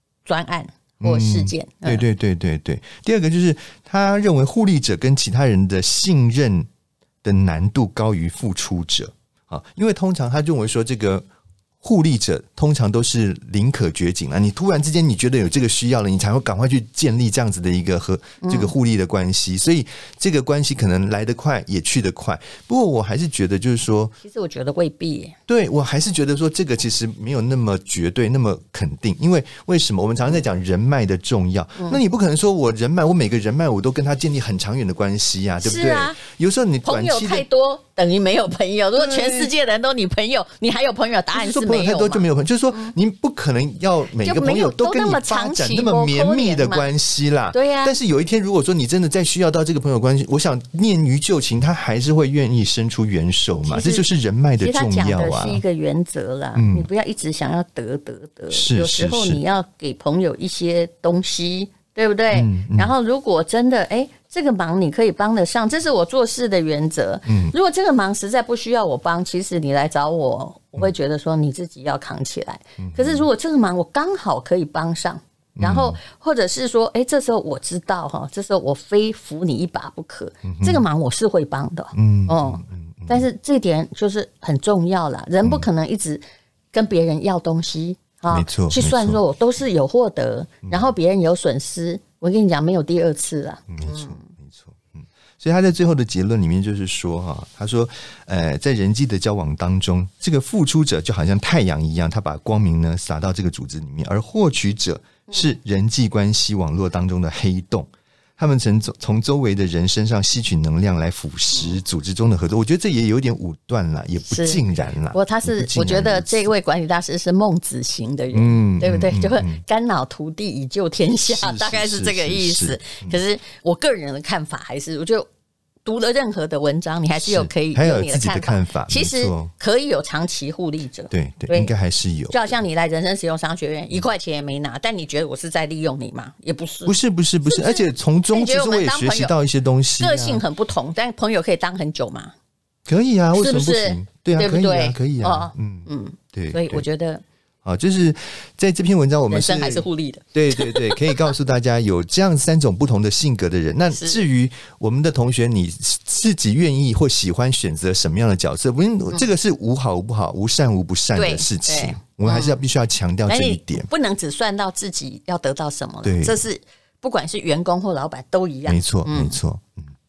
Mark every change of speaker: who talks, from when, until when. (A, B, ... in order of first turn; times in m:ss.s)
0:00.2-0:02.0 A
0:01.0-0:06.7 B
0:07.2-0:11.3 B
0:11.8-0:24.1 B
0:18.4-0:18.7 A
0:24.2-0:25.4 A
0:25.5-0:37.4 B
0:35.6-0:36.2 A
0:36.8-0:42.9 A
0:39.0-0:39.5 B
0:41.3-0:55.6 B
0:44.2-0:46.9 A
0:47.5-0:47.9 A
0:53.6-0:54.1 A
0:54.6-1:34.3 A
0:56.6-0:56.9 B
0:58.5-0:59.4 B
1:02.3-1:02.9 B
1:07.3-1:07.5 B
1:12.8-1:13.3 B
1:15.6-1:16.0 B
1:20.4-1:20.8 B
1:22.0-1:23.2 B
1:28.3-1:29.2 B
1:33.7-1:56.5 B
1:54.2-2:05.3 A
1:58.3-1:59.6 B
2:01.3-2:03.2 B
2:05.8-2:11.7 A
2:07.2-2:09.5 B
2:11.1-2:12.4 B
2:12.3-2:19.3 A
2:16.9-2:20.4 B
2:20.0-2:22.3 A
2:22.9-2:26.9 B
2:23.4-2:27.2 A
2:27.6-2:43.9 B
2:29.3-2:31.3 A
2:33.9-2:34.2 A
2:41.1-2:42.6 A
2:43.3-2:49.4 A
2:46.0-2:46.4 B
2:48.7-2:49.9 B